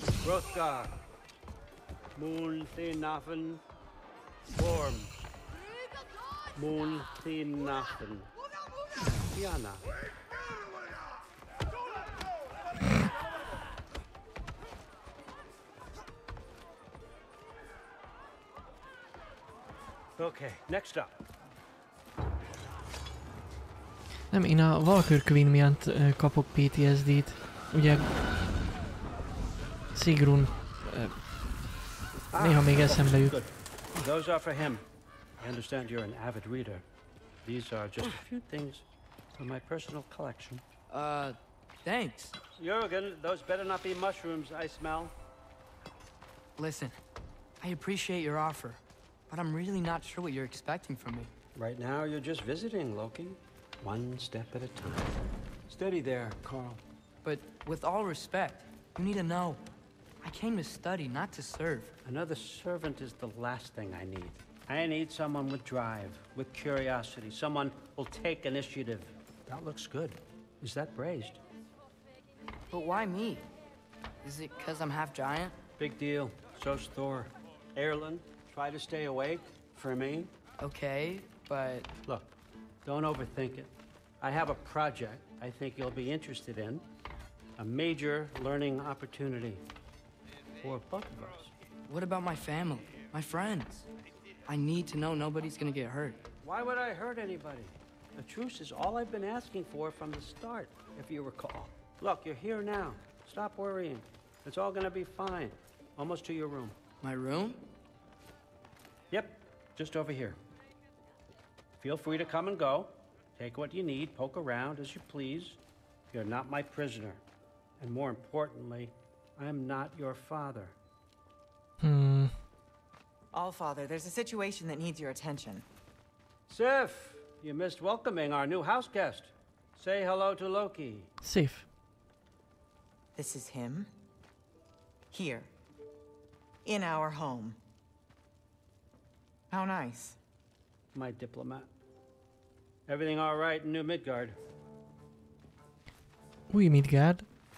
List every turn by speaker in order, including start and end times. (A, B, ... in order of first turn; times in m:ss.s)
0:00.2-0:00.9 A
0:02.2-0:03.6 A
0:04.5-0:05.1 A
0:06.5-0:08.3 A
0:09.3-0:09.8 A
0:20.2-0:21.1 A
0:24.3-0:28.1 B
0:29.9-0:31.2 B
0:32.3-0:34.8 A
0:32.4-0:33.4 B
0:35.4-0:36.8 A
0:37.4-0:38.8 A
0:39.4-0:40.6 A
0:40.9-0:42.4 C
0:42.6-0:45.1 A
0:46.6-0:47.0 C
0:47.6-0:51.3 C
0:51.5-0:55.1 A
0:55.7-0:56.8 A
0:57.2-0:59.6 C
1:00.2-1:01.9 C
1:02.0-1:11.4 A
1:12.7-1:13.5 C
1:14.2-1:15.6 C
1:15.8-1:20.3 A
1:20.6-1:21.9 C
1:22.0-1:26.8 A
1:27.6-1:29.6 A
1:30.6-1:31.5 A
1:31.9-1:33.9 C
1:34.5-1:36.2 C
1:36.4-1:46.8 A
1:47.0-1:47.6 C
1:49.1-1:50.4 A
1:51.8-1:55.6 A
1:56.1-1:57.2 A
1:57.8-2:00.8 A
2:01.8-2:02.4 B
2:03.3-2:05.6 D
2:06.5-2:11.1 A
2:11.2-2:11.7 B
2:13.2-2:13.9 D
2:15.1-2:15.5 D
2:16.6-2:17.6 D
2:19.5-2:20.1 D
2:20.9-2:21.7 A
2:22.9-2:24.4 A
2:26.5-2:27.2 B